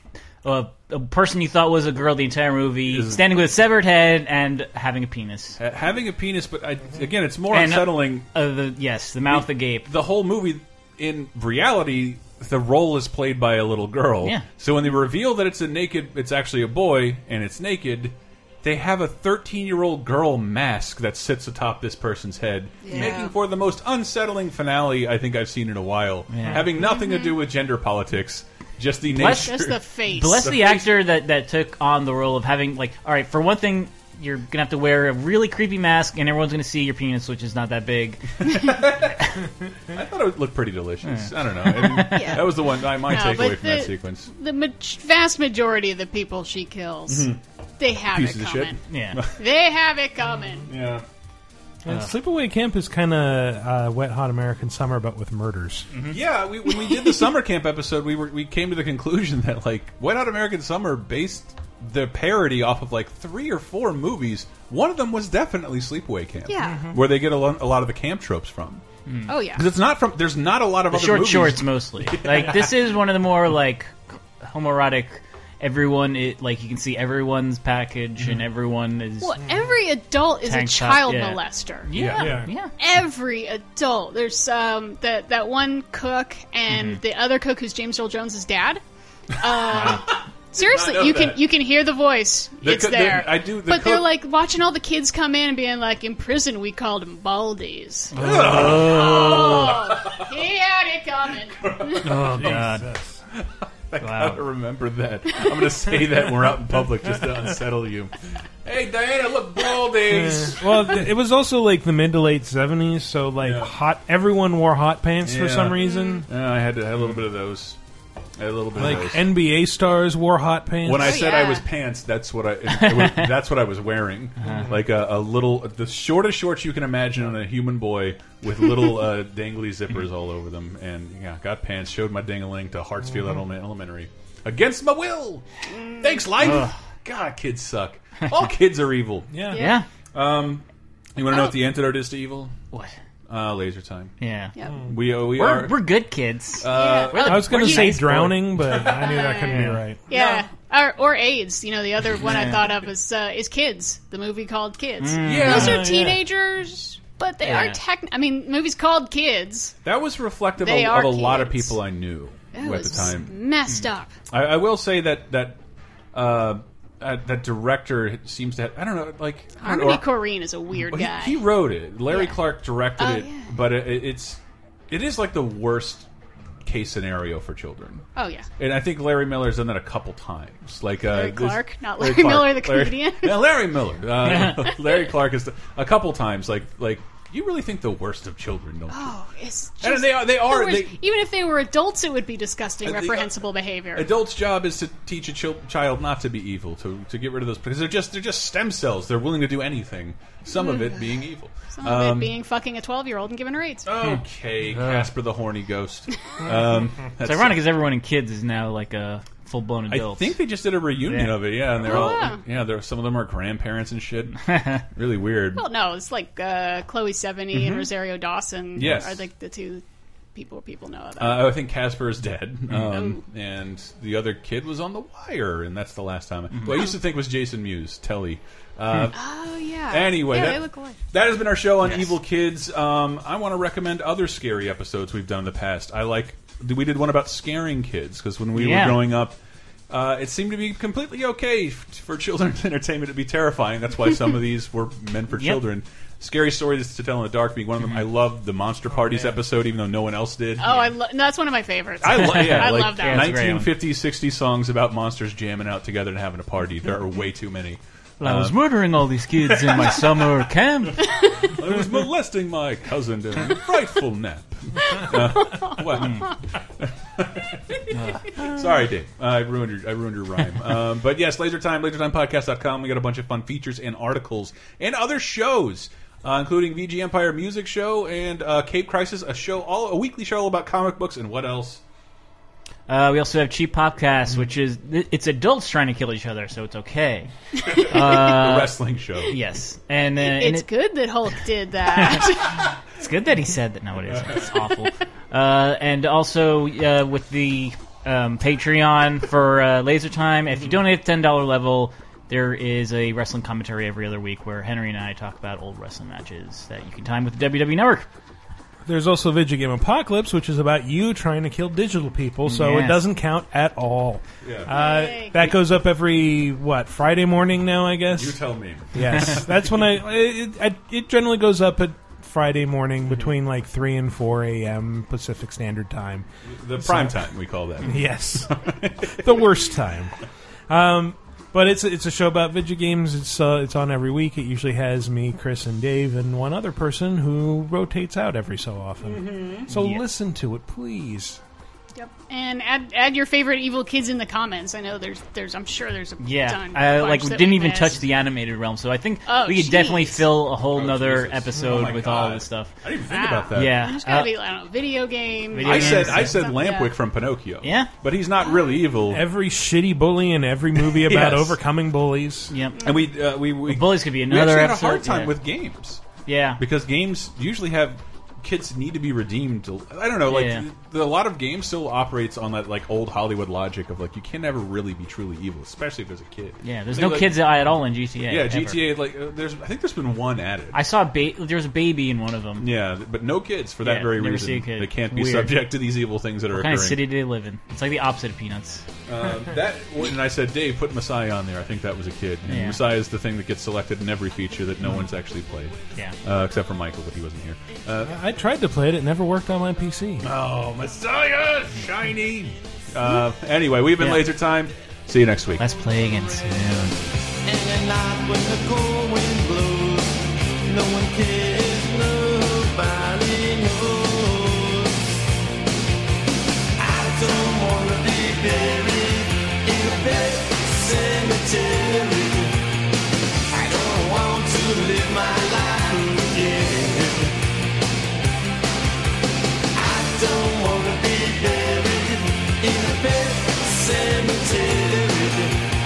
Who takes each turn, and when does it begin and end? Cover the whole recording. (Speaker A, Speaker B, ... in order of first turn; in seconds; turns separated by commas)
Speaker A: 0.4-5.6, Speaker B: 2.9-3.5, Speaker B: 5.6-8.3, Speaker A: 7.5-9.9, Speaker B: 9.3-29.8, Speaker C: 22.8-23.4, Speaker A: 26.3-26.7, Speaker C: 26.8-27.4, Speaker A: 29.1-38.5, Speaker C: 29.5-30.6, Speaker B: 30.4-30.8, Speaker B: 38.4-39.3, Speaker B: 39.9-44.3, Speaker A: 41.0-42.4, Speaker C: 42.1-48.8, Speaker B: 47.1-47.4, Speaker B: 48.1-49.4, Speaker A: 48.9-49.2, Speaker C: 49.4-50.7, Speaker B: 50.7-51.0, Speaker D: 51.9-55.9, Speaker A: 55.9-56.2, Speaker B: 56.1-68.8, Speaker C: 66.5-66.9, Speaker D: 66.6-67.0, Speaker A: 69.1-69.3, Speaker C: 69.3-69.7, Speaker B: 69.5-72.8, Speaker A: 70.9-79.4, Speaker C: 79.2-81.9, Speaker A: 80.5-82.7, Speaker B: 81.9-82.4, Speaker D: 82.2-82.5, Speaker C: 82.8-88.8, Speaker A: 86.7-87.0, Speaker C: 89.4-102.1, Speaker B: 89.4-91.4, Speaker A: 89.7-90.0, Speaker B: 92.6-94.1, Speaker A: 98.1-99.8, Speaker B: 98.2-100.3, Speaker B: 101.7-102.2, Speaker A: 102.0-102.9, Speaker D: 102.2-103.2, Speaker B: 103.4-108.1, Speaker A: 104.0-104.4, Speaker C: 105.4-105.8, Speaker B: 108.7-111.0, Speaker D: 110.1-116.3, Speaker B: 113.4-113.7, Speaker B: 115.2-117.8, Speaker C: 115.8-116.2, Speaker B: 118.4-119.3, Speaker D: 118.7-121.2, Speaker B: 120.8-135.4, Speaker C: 121.0-121.7, Speaker A: 122.7-123.3, Speaker A: 124.4-124.7, Speaker D: 124.5-124.7, Speaker C: 135.7-136.3, Speaker B: 136.0-139.4, Speaker A: 136.4-136.7, Speaker D: 139.3-139.6, Speaker C: 139.5-139.8, Speaker A: 139.5-139.9, Speaker B: 140.1-140.6, Speaker B: 141.2-142.5, Speaker B: 143.3-144.1, Speaker A: 144.2-144.5, Speaker B: 144.8-145.9, Speaker A: 145.3-148.6, Speaker B: 146.6-147.9, Speaker C: 146.7-147.8, Speaker D: 147.2-150.0, Speaker C: 148.9-159.8, Speaker A: 149.5-149.8, Speaker B: 150.1-150.5, Speaker A: 152.2-152.6, Speaker A: 155.0-155.8, Speaker B: 155.2-155.9, Speaker D: 155.5-156.2, Speaker A: 157.4-157.8, Speaker B: 159.8-163.3, Speaker C: 160.6-161.8, Speaker C: 162.5-164.2, Speaker B: 164.3-165.6, Speaker B: 166.1-170.1, Speaker C: 169.6-171.4, Speaker B: 170.7-176.1, Speaker C: 172.1-172.4, Speaker C: 173.0-173.5, Speaker B: 176.7-178.1, Speaker C: 178.2-178.5, Speaker B: 178.6-189.2, Speaker C: 181.1-183.5, Speaker C: 188.9-194.1, Speaker B: 189.8-191.0, Speaker B: 192.8-193.3, Speaker B: 193.9-202.3, Speaker C: 200.5-203.9, Speaker B: 203.9-207.6, Speaker A: 204.8-205.1, Speaker A: 207.2-210.4, Speaker B: 209.9-215.7, Speaker A: 211.0-212.1, Speaker C: 211.8-212.4, Speaker A: 214.5-214.8, Speaker C: 215.6-219.8, Speaker B: 217.5-217.9, Speaker B: 218.8-219.2, Speaker C: 220.3-221.5, Speaker B: 221.2-229.2, Speaker C: 222.9-223.2, Speaker A: 226.5-226.8, Speaker C: 229.1-231.0, Speaker B: 229.9-239.4, Speaker A: 231.8-232.2, Speaker A: 238.5-239.0, Speaker B: 239.9-250.7, Speaker A: 245.3-245.7, Speaker C: 250.6-253.4, Speaker A: 250.6-250.9, Speaker B: 252.0-258.6, Speaker A: 252.1-253.7, Speaker A: 258.2-261.1, Speaker B: 259.4-260.5, Speaker B: 261.4-267.8, Speaker C: 264.9-266.1, Speaker A: 266.0-266.3, Speaker A: 267.9-268.5, Speaker B: 268.3-281.8, Speaker A: 282.9-288.8, Speaker B: 287.7-289.4, Speaker A: 289.3-290.7, Speaker C: 290.2-292.7, Speaker A: 291.9-292.3, Speaker A: 293.0-308.1, Speaker B: 294.1-294.5, Speaker D: 308.8-318.4, Speaker A: 312.5-313.0, Speaker B: 314.4-314.7, Speaker C: 314.7-315.5, Speaker B: 318.1-319.4, Speaker D: 318.9-326.3, Speaker B: 326.5-329.4, Speaker D: 326.8-327.2, Speaker D: 327.9-328.6, Speaker D: 329.1-330.1, Speaker D: 330.7-341.4, Speaker B: 339.0-339.7, Speaker A: 339.8-340.0, Speaker C: 342.0-348.0, Speaker A: 346.2-352.7, Speaker C: 349.3-350.2, Speaker B: 350.6-353.8, Speaker C: 353.1-356.9, Speaker A: 353.5-354.3, Speaker A: 355.5-356.5, Speaker B: 355.6-359.3, Speaker A: 357.6-357.9, Speaker D: 359.1-362.5, Speaker B: 360.9-361.6, Speaker A: 362.5-362.9, Speaker C: 362.8-363.1, Speaker B: 362.8-366.0, Speaker A: 363.7-365.4, Speaker A: 366.3-366.6, Speaker B: 366.6-377.4, Speaker A: 370.3-370.7, Speaker A: 376.6-378.8, Speaker B: 378.3-380.8, Speaker A: 380.7-382.7, Speaker B: 382.6-387.0, Speaker A: 383.8-385.7, Speaker A: 386.5-388.9, Speaker B: 389.1-398.2, Speaker A: 392.4-392.8, Speaker D: 398.0-400.3, Speaker B: 400.2-405.6, Speaker A: 404.0-404.3, Speaker A: 405.6-407.0, Speaker E: 407.5-414.9, Speaker E: 416.8-422.5, Speaker E: 423.5-427.3, Speaker E: 429.8-435.5